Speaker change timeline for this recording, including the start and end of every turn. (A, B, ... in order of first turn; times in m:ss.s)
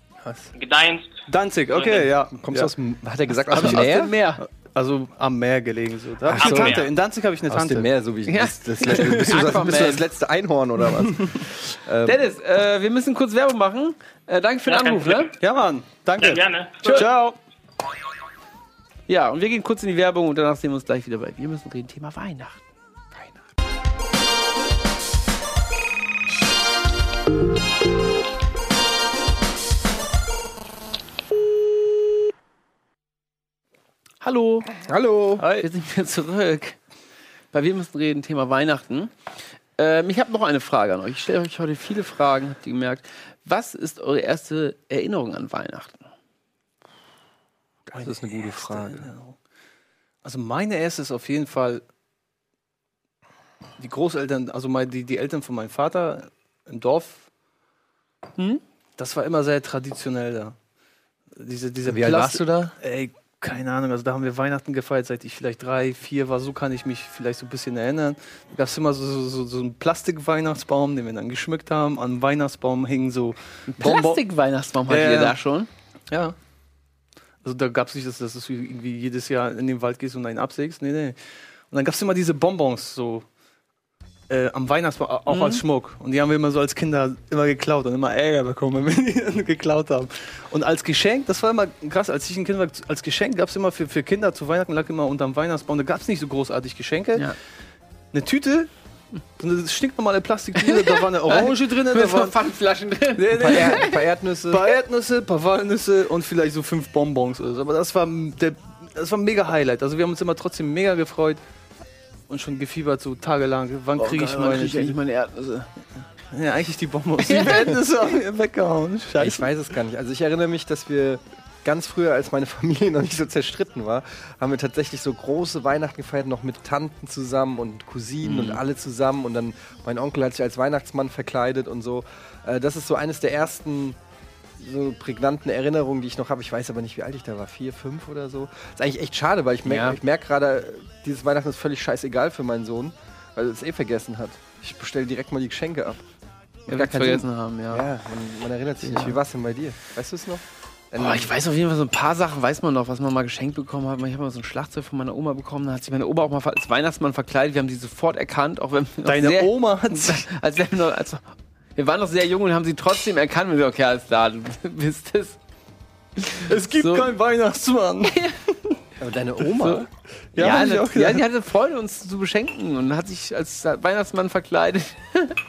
0:00.5-0:02.1 A
0:01.3-0:02.7 B
0:02.4-0:04.1 C
0:03.5-0:04.4 D
0:03.6-0:07.9 B
0:06.2-0:06.8 C
0:06.4-0:06.9 A
0:07.5-0:12.2 C
0:08.3-0:10.0 D
0:12.0-0:15.3 D
0:14.7-0:15.3 A
0:15.4-0:17.4 B
0:16.2-0:17.1 A
0:19.1-0:22.6 D
0:34.2-0:34.7 D
0:34.8-0:35.5 C
0:35.4-0:36.8 D
0:37.5-0:39.1 D
0:39.8-0:46.1 D
0:47.9-0:49.1 C
0:48.0-0:49.4 B
0:50.2-0:51.8 B
0:53.8-0:57.2 B
0:58.4-0:58.6 D
0:59.0-1:00.6 B
1:01.4-1:14.2 B
1:01.9-1:02.7 C
1:13.7-1:15.7 D
1:14.9-1:15.4 B
1:17.4-1:21.2 B
1:21.7-1:23.2 B
1:24.3-1:37.3 B
1:25.3-1:25.6 D
1:38.1-1:38.7 B
1:39.4-1:42.4 B
1:40.6-1:44.0 D
1:43.1-1:43.9 B
1:43.4-1:44.7 C
1:44.5-1:51.4 B
1:52.3-1:55.0 B
1:54.0-1:55.7 D
1:56.3-1:59.5 B
1:57.2-1:57.7 D
1:59.2-2:14.0 C
2:08.2-2:08.6 D
2:14.6-2:26.0 C
2:19.6-2:20.0 D
2:26.7-2:27.9 D
2:26.7-2:31.3 C
2:28.8-2:29.2 D
2:31.0-2:41.2 D
2:39.0-2:40.3 B
2:41.8-2:45.4 D
2:46.2-2:47.1 D
2:46.4-2:48.2 B
2:48.1-2:48.4 D
2:49.0-2:49.9 C
2:50.3-2:51.2 B
2:50.4-2:55.3 D